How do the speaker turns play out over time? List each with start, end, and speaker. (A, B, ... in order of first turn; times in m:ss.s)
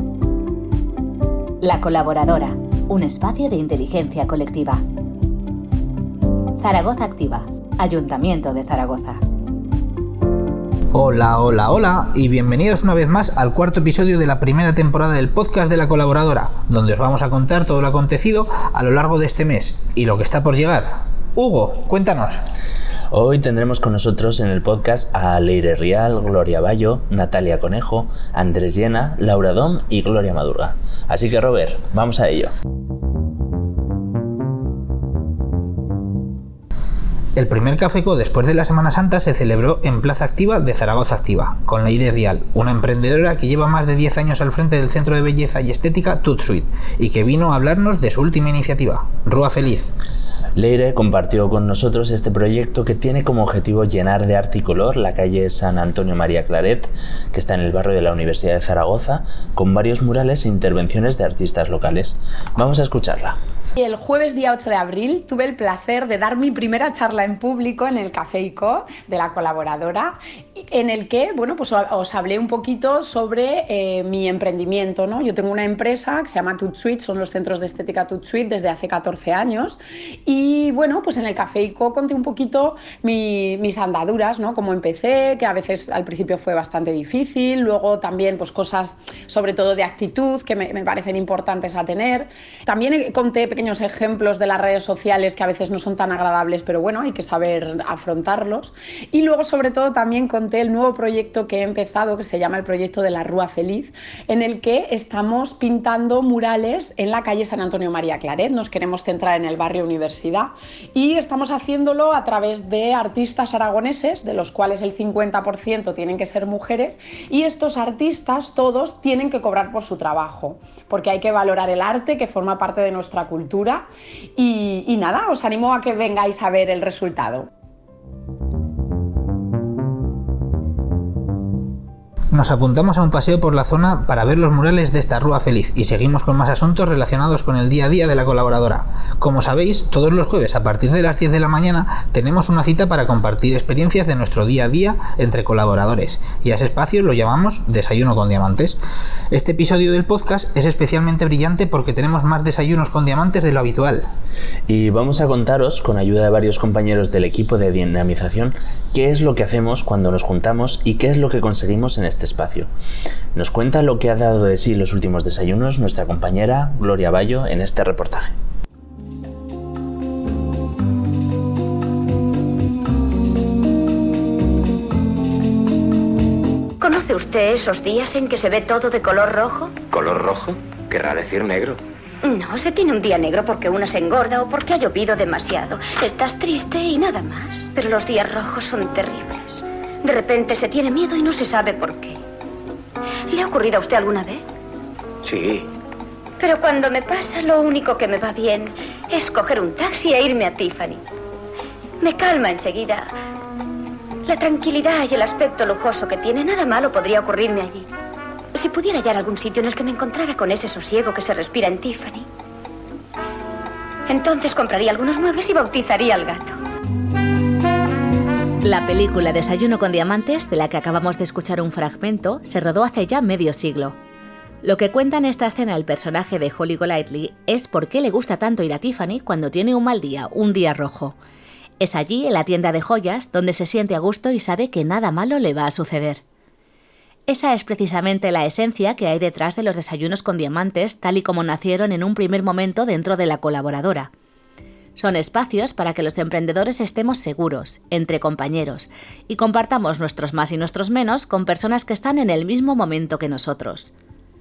0:01.6-0:04.8 A
0:06.6-0:09.2 A
0:10.9-0:22.4 B
0:23.1-0:32.5 C
0:37.4-0:49.9 B
0:50.6-1:03.4 C
1:03.8-2:03.8 D
2:04.4-2:07.5 D
2:12.3-2:28.8 B
2:29.3-2:34.0 B
2:34.7-2:42.7 C
2:43.3-2:48.3 C
2:56.8-2:59.8 E
2:59.9-3:01.8 F
3:02.2-3:12.2 E
3:13.3-3:14.4 E
3:15.2-3:15.7 F
3:16.4-3:21.0 E
3:22.0-3:23.1 E
3:24.2-3:27.9 E
3:28.5-3:32.2 E
3:34.1-3:36.5 E
3:38.6-3:44.0 A
3:44.6-3:51.2 A
3:51.8-3:56.2 A
3:57.3-4:04.1 A
4:05.0-4:13.9 A